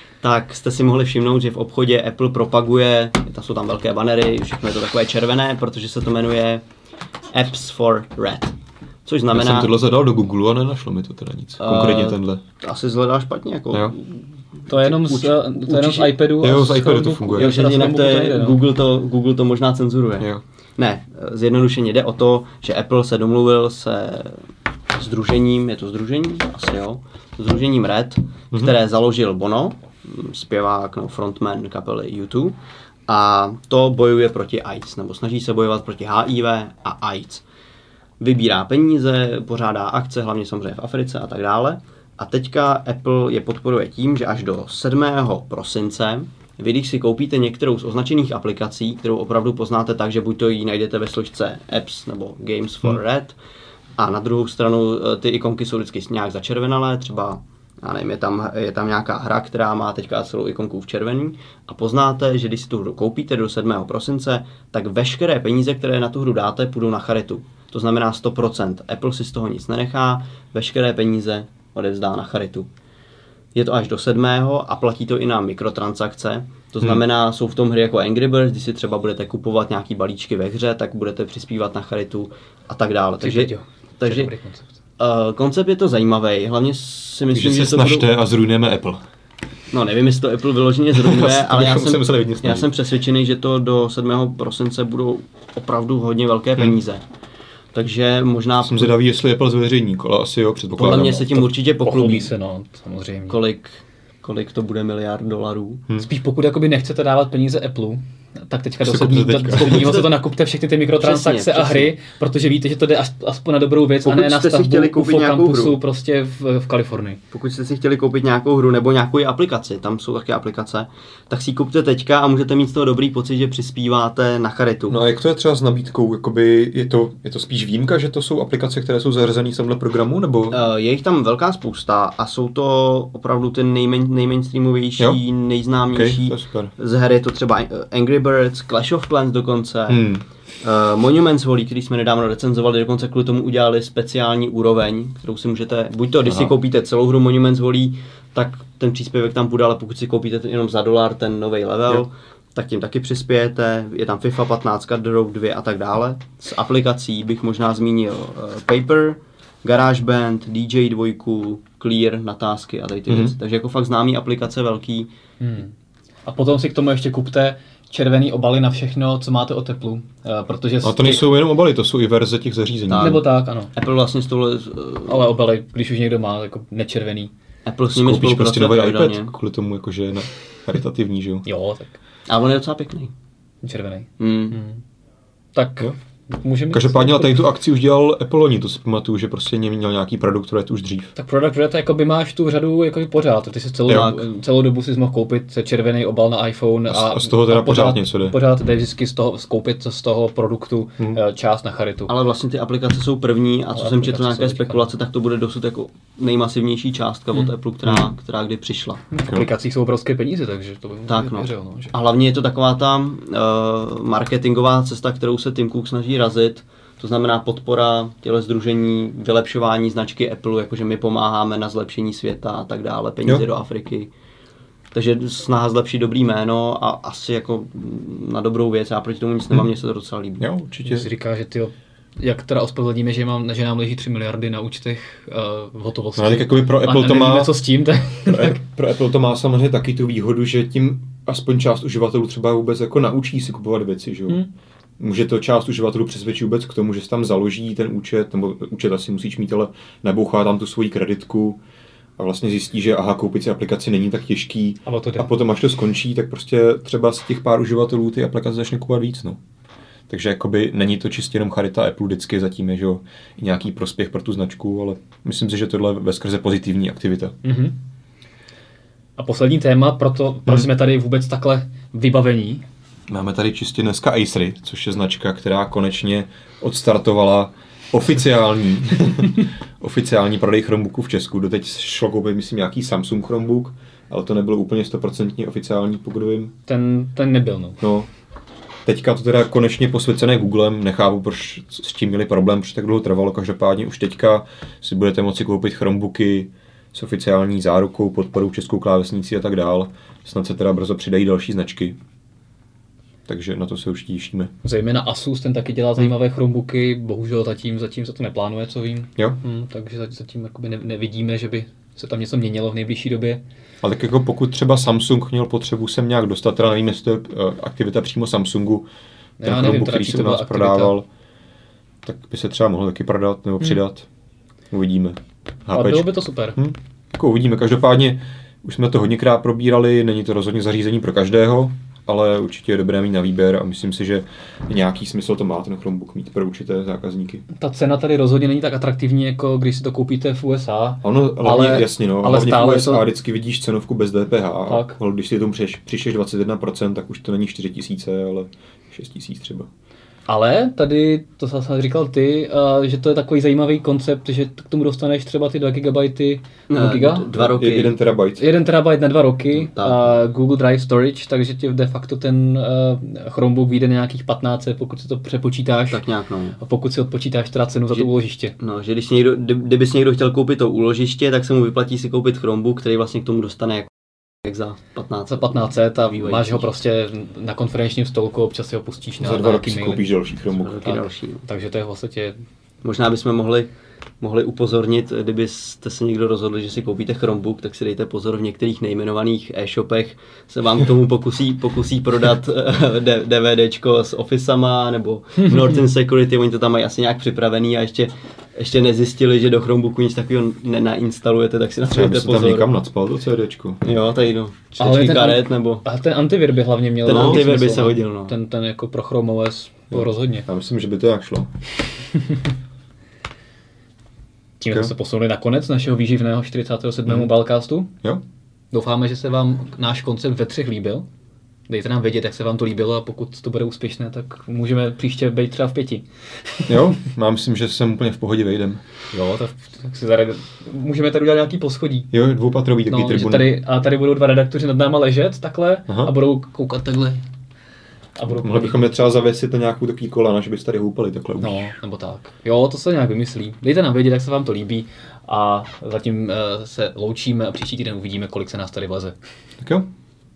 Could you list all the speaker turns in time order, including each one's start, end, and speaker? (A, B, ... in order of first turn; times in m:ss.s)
0:00.2-0:06.6 A
0:07.3-0:09.7 A
0:09.3-0:12.4 B
0:11.6-0:16.2 A
0:14.7-0:18.6 C
0:16.4-0:17.5 B
0:17.3-0:37.4 A
0:38.2-0:53.4 A
0:54.0-1:12.7 A
1:13.5-1:24.3 A
1:23.2-1:24.7 C
1:25.0-1:28.1 A
1:27.3-1:29.0 B
1:29.7-1:37.0 A
1:31.0-1:32.7 B
1:37.7-1:39.0 A
1:38.6-1:41.5 B
1:40.7-1:42.3 A
1:41.8-1:43.4 C
1:43.3-1:45.8 A
1:46.0-1:57.2 C
1:48.8-1:50.0 B
1:51.0-1:51.9 A
1:54.0-1:55.8 A
1:57.3-2:05.0 A
2:04.9-2:10.6 B
2:10.5-2:45.1 A
2:15.9-2:16.7 B
2:19.9-2:20.2 B
2:43.1-2:43.3 B
2:45.4-2:45.7 C
2:46.2-2:51.3 C
2:50.8-2:53.2 B
2:52.9-2:55.3 A
2:52.9-2:53.7 C
2:55.1-2:57.3 C
2:57.6-2:59.3 A
2:57.9-3:01.4 B
3:01.4-3:02.0 C
3:02.3-3:03.1 A
3:03.6-3:04.8 C
3:04.2-3:04.6 A
3:05.5-3:07.4 C
3:06.7-3:11.1 B
3:11.2-3:22.1 C
3:13.9-3:14.2 B
3:13.9-3:14.2 A
3:16.9-3:18.4 B
3:22.1-3:29.0 A
3:23.7-3:24.9 C
3:29.1-3:31.9 C
3:31.1-3:44.1 A
3:44.9-3:50.4 A
3:50.4-3:51.1 B
3:50.8-3:58.6 C
3:56.2-3:57.6 B
3:58.2-4:04.4 B
4:05.0-4:11.6 B
4:12.2-4:19.4 B
4:14.8-4:15.3 C
4:20.1-4:27.4 B
4:27.4-4:27.8 C
4:29.2-4:32.6 C
4:33.1-4:46.5 B
4:46.6-4:47.8 C
4:47.8-4:48.1 B
4:48.8-5:02.0 B
5:03.3-5:04.5 B
5:04.6-5:13.4 C
5:13.8-5:18.9 B
5:19.4-5:21.0 C
5:19.4-5:21.0 B
5:22.0-5:24.1 B
5:24.7-5:37.4 B
5:25.7-5:26.6 C
5:37.5-5:43.0 C
5:41.0-5:49.7 B
5:44.6-5:45.0 C
5:50.3-5:57.3 C
5:56.7-5:57.9 A
5:57.3-5:58.5 B
5:58.4-6:06.0 C
5:59.6-6:00.2 A
6:05.9-6:06.6 A
6:06.6-6:08.5 C
6:07.9-6:13.9 A
6:14.4-6:16.6 A
6:15.3-6:20.1 C
6:19.2-6:20.8 B
6:20.6-6:21.4 A
6:20.8-6:22.4 C
6:22.8-6:42.7 A
6:41.9-6:43.8 B
6:43.8-6:45.8 A
6:44.8-6:50.5 C
6:47.0-6:48.3 A
6:47.1-6:47.4 B
6:49.9-6:51.5 B
6:54.6-6:57.9 C
6:58.7-7:01.0 C
7:01.7-7:06.9 C
7:06.7-7:08.8 B
7:09.1-7:12.1 C
7:12.1-7:13.6 B
7:12.9-7:17.2 C
7:18.2-7:19.0 C
7:18.3-7:21.6 B
7:21.4-7:29.2 C
7:29.6-7:29.9 B